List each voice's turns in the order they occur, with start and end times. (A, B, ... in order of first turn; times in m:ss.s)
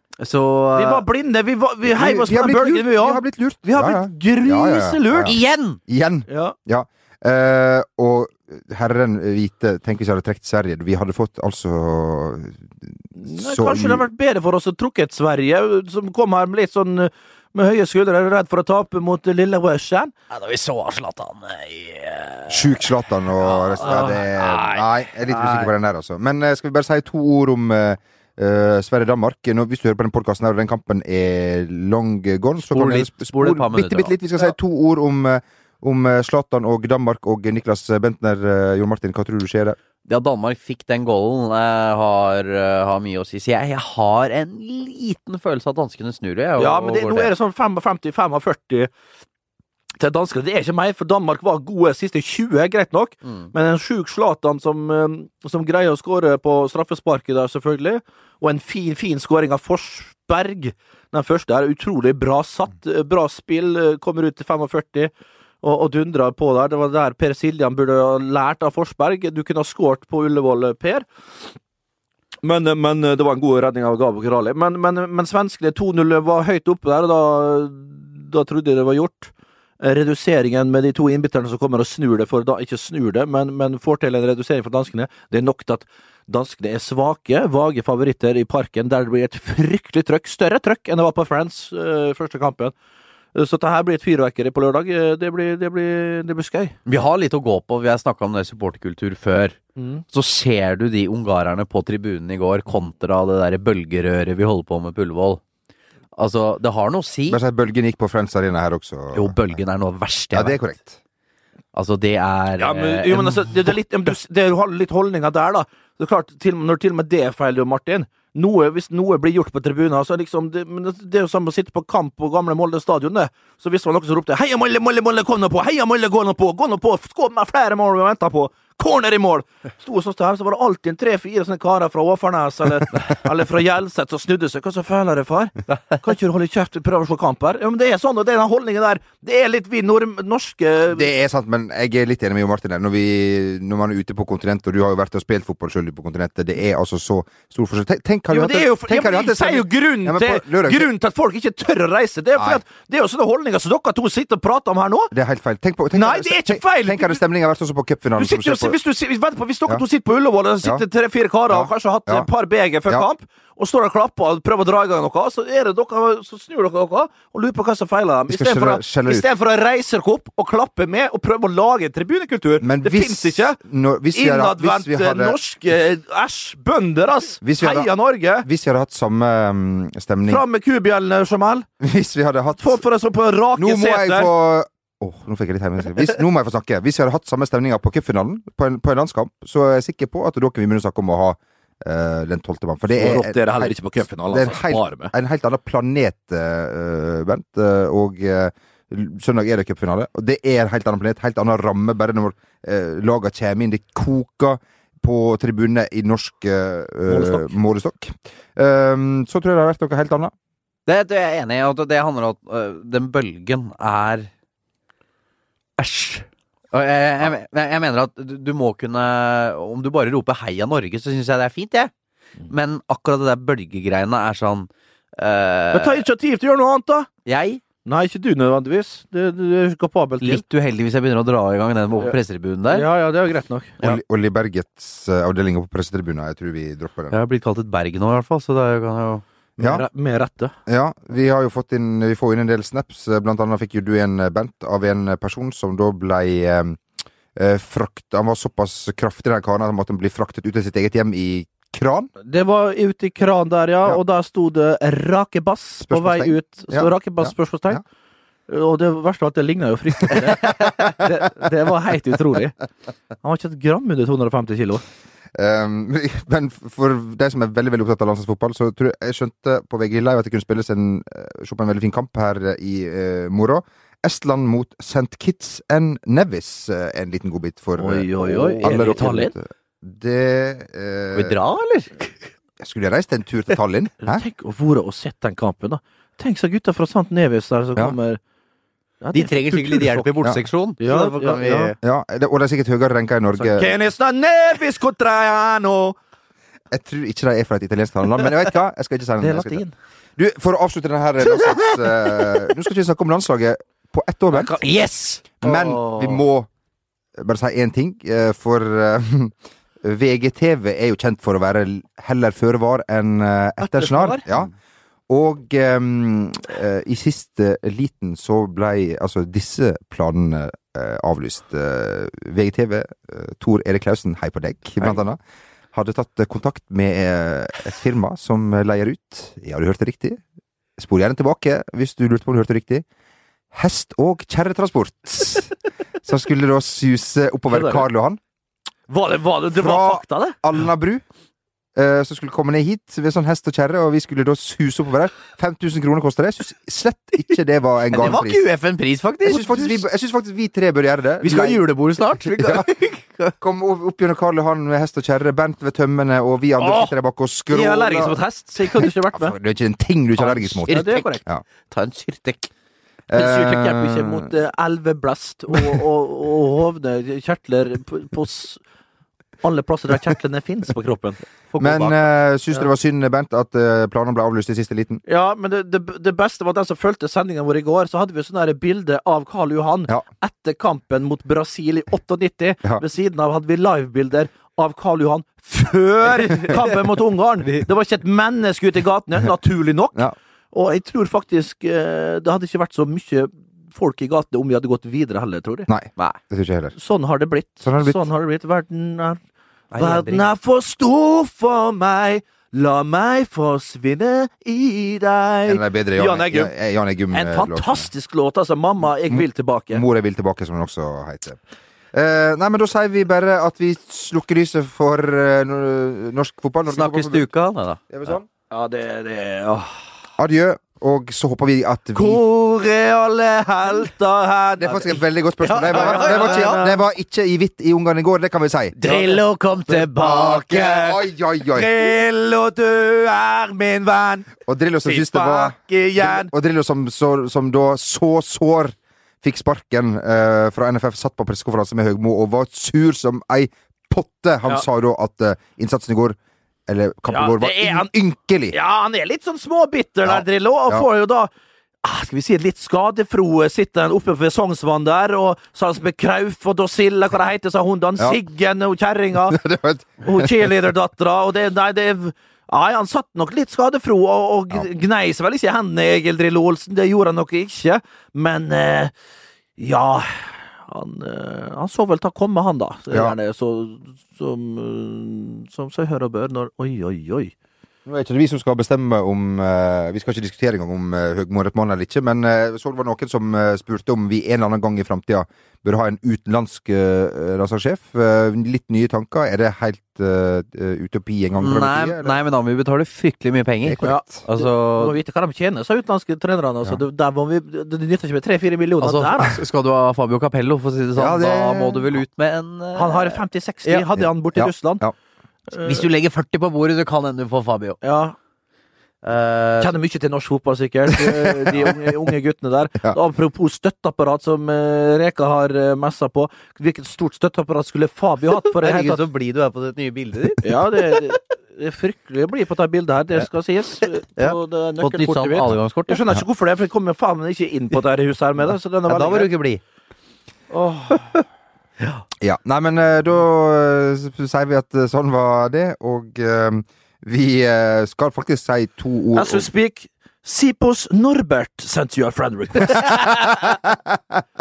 0:00.2-0:01.0 A
0:00.8-0:05.3 B
0:01.9-0:14.0 C
0:05.2-0:05.8 A
0:06.3-0:06.5 B
0:13.2-0:20.1 B
0:20.3-0:25.7 A
0:22.5-0:39.8 C
0:23.8-0:24.1 B
0:32.6-0:34.5 A
0:40.0-0:47.3 A
0:46.6-0:48.9 B
0:50.0-1:05.1 B
1:05.6-1:11.0 B
1:12.4-1:32.7 B
1:33.3-1:36.7 B
1:36.8-1:39.6 A
1:39.8-1:40.0 B
1:40.1-1:45.4 A
1:46.2-1:47.4 A
1:47.3-1:49.6 C
1:49.1-1:50.6 A
1:50.3-1:51.0 C
1:51.7-1:53.8 A
1:52.6-2:21.1 B
2:20.9-2:30.9 C
2:28.3-2:35.1 B
2:35.1-2:38.8 C
2:35.9-2:37.2 B
2:38.2-2:53.6 B
2:41.5-2:42.3 C
2:48.3-2:49.2 C
2:52.6-2:55.4 C
2:54.1-2:58.4 B
2:57.4-2:57.9 C
2:58.4-3:00.4 C
3:00.3-3:01.7 B
3:01.8-3:02.8 C
3:02.6-3:04.3 B
3:03.6-3:13.7 C
3:12.9-3:15.1 B
3:14.3-3:30.3 C
3:27.1-3:27.5 B
3:30.9-3:34.3 A
3:35.8-3:41.9 A
3:42.5-3:46.0 A
3:45.7-3:47.1 B
3:47.2-3:47.6 A
3:47.8-3:50.4 B
3:50.2-3:52.9 A
3:52.7-3:53.8 B
3:53.8-3:57.2 C
3:57.1-3:59.2 A
3:59.6-3:59.8 C
3:59.6-4:00.5 B
4:00.7-4:06.8 C
4:07.3-4:12.1 C
4:12.2-4:17.8 B
4:15.8-4:17.8 C
4:18.5-4:22.5 B
4:23.2-4:24.8 B
4:25.3-4:41.4 C
4:37.8-4:39.3 B
4:38.2-4:39.3 A
4:41.1-4:42.2 A
4:42.6-4:44.2 C
4:44.0-4:48.2 B
4:49.0-4:50.1 B
4:49.1-4:51.8 A
4:50.8-4:51.7 B
4:51.8-4:53.7 C
4:53.4-4:56.0 B
4:56.7-4:59.6 C
4:59.2-4:59.7 B
5:00.2-5:04.5 C
5:04.3-5:06.2 B
5:05.4-5:06.5 C
5:07.2-5:14.5 C
5:13.6-5:14.2 B
5:15.1-5:25.2 C
5:25.7-5:30.2 C
5:30.8-5:32.8 C
5:33.5-5:38.2 C
5:37.5-5:37.8 B
5:38.9-5:40.4 B
5:39.5-5:41.0 C
5:41.7-5:48.4 C
5:47.9-5:49.8 A
5:49.2-5:51.6 C
5:51.2-5:53.3 A
5:52.4-5:52.7 C
5:53.4-5:58.2 C
5:56.6-5:56.9 B
5:57.5-5:59.3 B
5:58.8-6:01.4 C
6:00.2-6:01.2 B
6:00.7-6:02.5 A
6:03.1-6:04.2 C
6:03.1-6:08.6 B
6:09.4-6:12.0 B
6:11.6-6:15.0 C
6:15.1-6:35.7 B
6:35.7-6:36.7 C
6:36.7-6:39.2 B
6:37.6-6:38.0 C
6:39.7-6:40.3 A
6:39.8-6:46.5 B
6:45.4-6:47.9 C
6:47.1-6:49.8 B
6:49.1-6:51.4 C
6:51.9-6:57.3 C
6:56.6-6:57.8 A
6:57.9-6:58.2 C
6:58.5-6:59.8 B
7:00.2-7:02.2 C
7:01.9-7:06.8 B
7:04.6-7:08.8 C
7:05.5-7:06.6 A
7:08.8-7:10.8 A
7:08.8-7:11.0 B
7:10.0-7:11.7 C
7:11.5-7:14.3 B
7:14.4-7:28.6 C
7:14.8-7:16.3 B
7:27.1-7:27.9 B
7:28.5-7:31.3 B
7:30.0-7:30.8 C
7:31.8-7:39.4 B
7:39.2-7:40.5 C
7:40.0-7:48.9 B
7:49.6-7:57.3 B
7:57.8-8:12.2 C
8:11.4-8:15.0 A
8:13.6-8:14.2 C
8:13.8-8:19.4 B
8:18.8-8:23.9 A
8:21.0-8:22.0 C
8:22.7-8:24.8 B
8:24.0-8:24.9 C
8:25.5-8:25.8 B
8:25.6-8:27.8 A
8:27.8-8:28.1 B
8:29.0-8:29.7 A
8:29.6-8:39.0 B
8:38.5-8:41.1 A
8:40.4-8:49.3 B
8:44.2-8:46.0 A
8:48.9-8:49.6 A
8:50.5-8:51.0 B
8:52.2-8:59.5 C
8:59.1-9:03.4 B
9:02.9-9:04.2 C